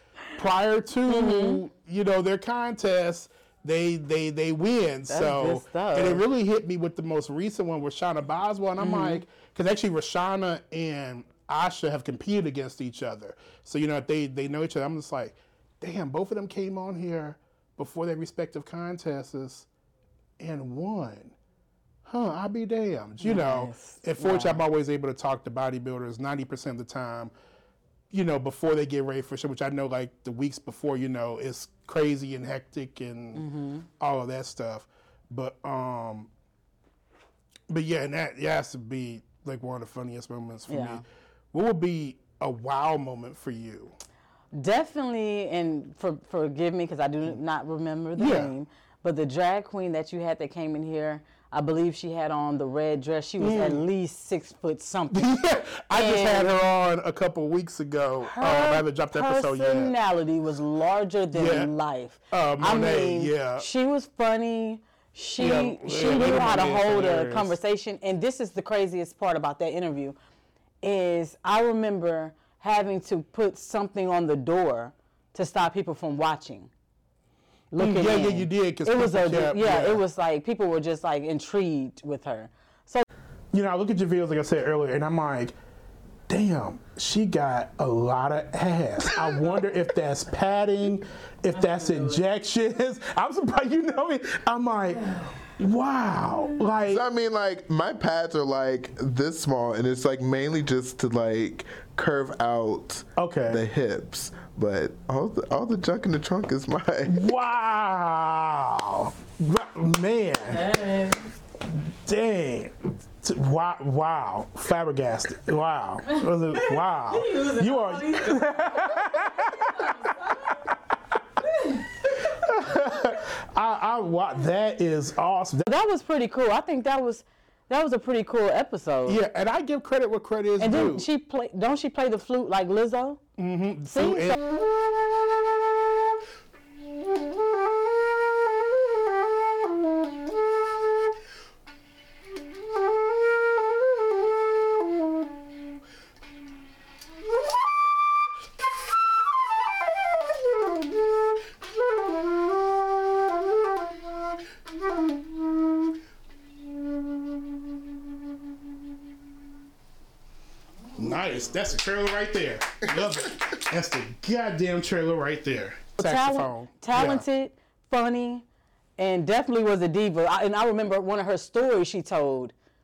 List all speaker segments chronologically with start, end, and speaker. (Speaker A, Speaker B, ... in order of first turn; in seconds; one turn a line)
Speaker A: 0.3-19.7
Speaker B: 1.1-1.6
Speaker B: 5.1-6.2
Speaker B: 8.8-9.2
Speaker A: 20.4-21.3
Speaker A: 22.0-27.3
Speaker B: 23.2-24.6
Speaker A: 28.1-33.5
Speaker B: 33.3-33.9
Speaker A: 34.0-36.3
Speaker A: 37.7-43.9
Speaker B: 40.7-41.0
Speaker B: 44.5-55.3
Speaker A: 48.1-48.5
Speaker A: 53.4-53.8
Speaker A: 55.1-59.9
Speaker B: 55.9-56.5
Speaker B: 58.2-70.2
Speaker A: 61.3-61.7
Speaker A: 62.3-63.6
Speaker A: 65.4-67.6
Speaker B: 70.8-76.7
Speaker B: 77.7-83.1
Speaker A: 77.8-80.0
Speaker A: 83.5-85.5
Speaker A: 86.3-97.0
Speaker C: 96.9-107.2
Speaker A: 103.2-103.6
Speaker A: 107.1-110.7
Speaker B: 110.5-111.2
Speaker A: 111.7-119.9
Speaker B: 116.5-120.6
Speaker A: 122.4-125.7
Speaker B: 125.6-129.2
Speaker A: 129.1-131.1
Speaker B: 130.6-133.2
Speaker A: 133.4-134.4
Speaker B: 133.9-134.4
Speaker A: 160.9-167.2
Speaker B: 166.0-168.4
Speaker B: 169.0-172.5